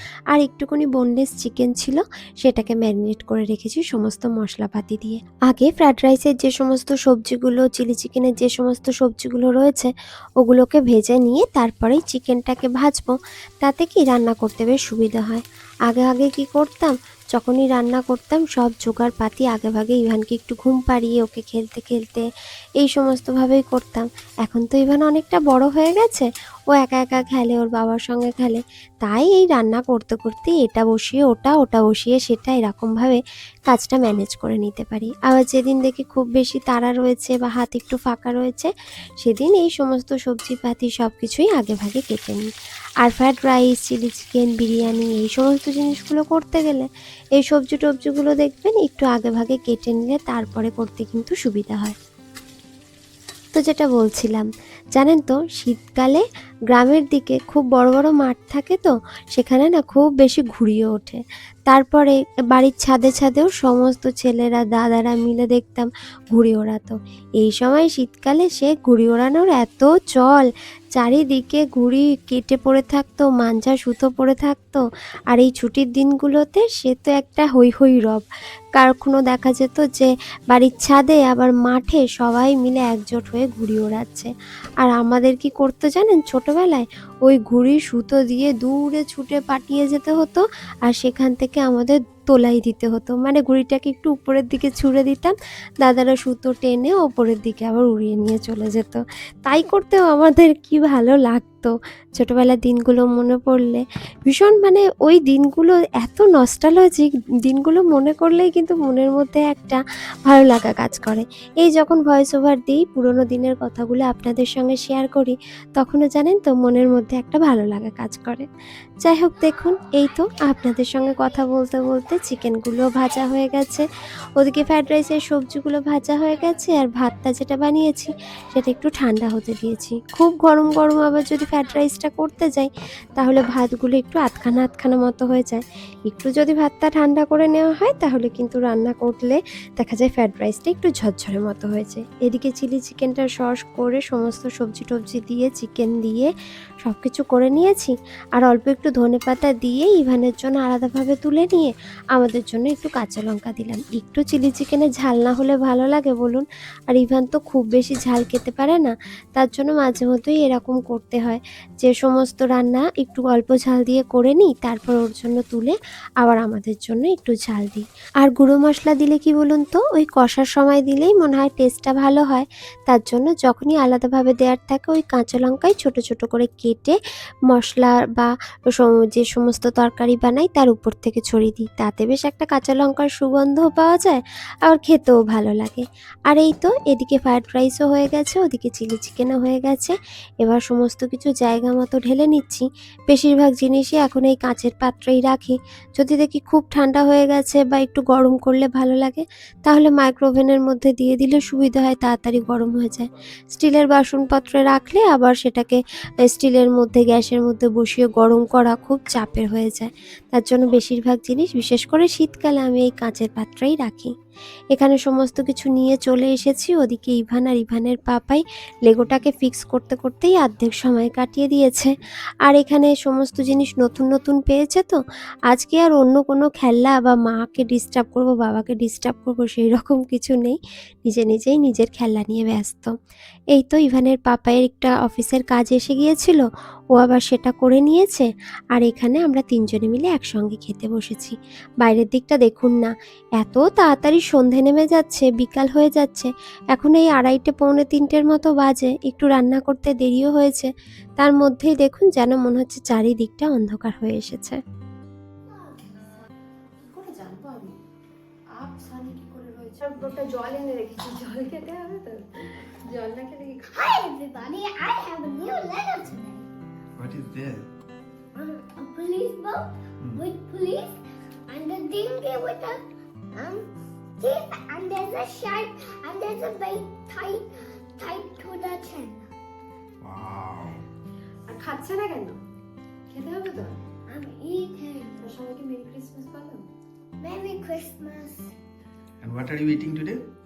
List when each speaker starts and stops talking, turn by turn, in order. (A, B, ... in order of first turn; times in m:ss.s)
0:00.3-0:22.3 A
0:22.8-0:42.5 A
0:43.0-0:52.0 A
0:53.5-1:18.2 A
1:18.8-1:58.5 A
1:59.0-2:03.8 A
2:04.4-2:26.3 A
2:26.8-3:34.1 A
3:34.7-3:41.9 A
3:42.5-3:53.0 A
3:53.5-4:14.6 A
4:16.9-4:17.7 B
4:17.0-4:17.5 A
4:18.6-4:22.2 B
4:18.7-4:22.0 A
4:23.0-4:23.6 B
4:23.0-4:23.6 A
4:23.7-4:26.5 C
4:27.0-4:27.7 D
4:28.4-4:32.8 C
4:33.4-4:33.7 C
4:34.2-4:39.3 C
4:40.0-4:40.8 D
4:41.5-4:42.3 B
4:41.6-4:42.3 A
4:43.1-4:43.7 A
4:43.2-4:43.7 B
4:44.1-4:45.3 C
4:45.3-4:46.4 A
4:45.3-4:46.6 B
4:47.2-4:48.5 C
4:49.2-4:50.2 D